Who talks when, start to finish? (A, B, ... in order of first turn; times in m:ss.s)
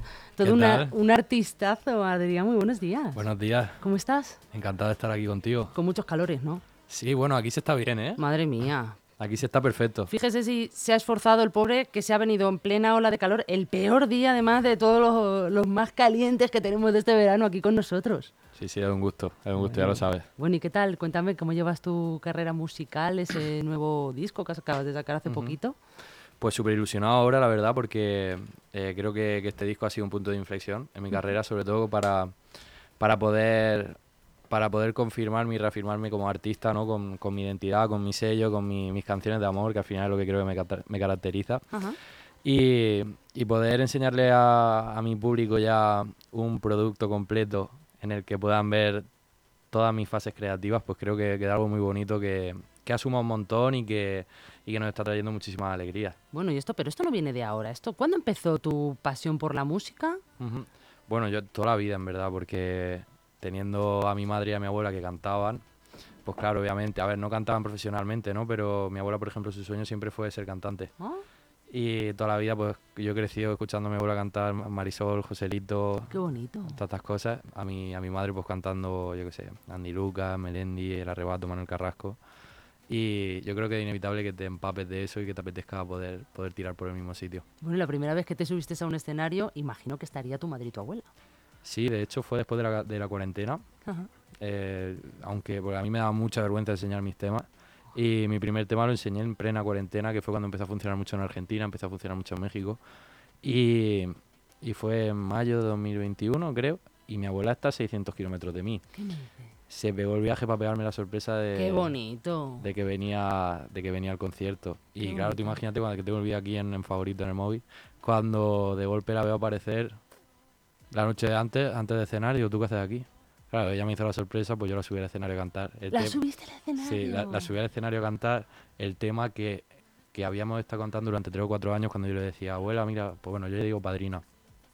0:00.4-0:03.3 A
0:00.4-0:00.9 B
0:03.1-0:03.8 B
0:03.8-0:04.4 A
0:04.5-0:05.7 B
0:05.7-0:06.6 A
0:06.9-0:08.2 B
0:08.2-0:09.0 A
0:09.2-0:10.1 B
0:10.1-0:18.3 A
0:18.5-0:20.2 B
0:19.6-0:25.8 A
0:25.2-0:25.6 B
0:26.4-0:32.4 B
0:33.0-0:34.0 B
0:34.5-0:41.7 B
0:41.7-0:42.0 A
0:42.4-0:49.0 B
0:49.7-0:56.2 B
0:56.3-1:00.2 A
1:00.4-1:05.6 B
1:06.2-1:10.9 B
1:11.0-1:11.2 A
1:11.7-1:22.2 B
1:16.1-1:16.8 A
1:22.9-1:27.4 B
1:27.6-1:31.1 A
1:31.6-1:33.6 B
1:34.4-1:42.8 B
1:43.4-1:48.8 B
1:48.9-1:49.5 A
1:49.7-1:51.9 B
1:51.5-1:52.7 A
1:52.6-2:00.0 B
1:55.0-1:55.6 A
2:00.9-2:06.2 B
2:05.9-2:07.5 A
2:06.8-2:14.2 B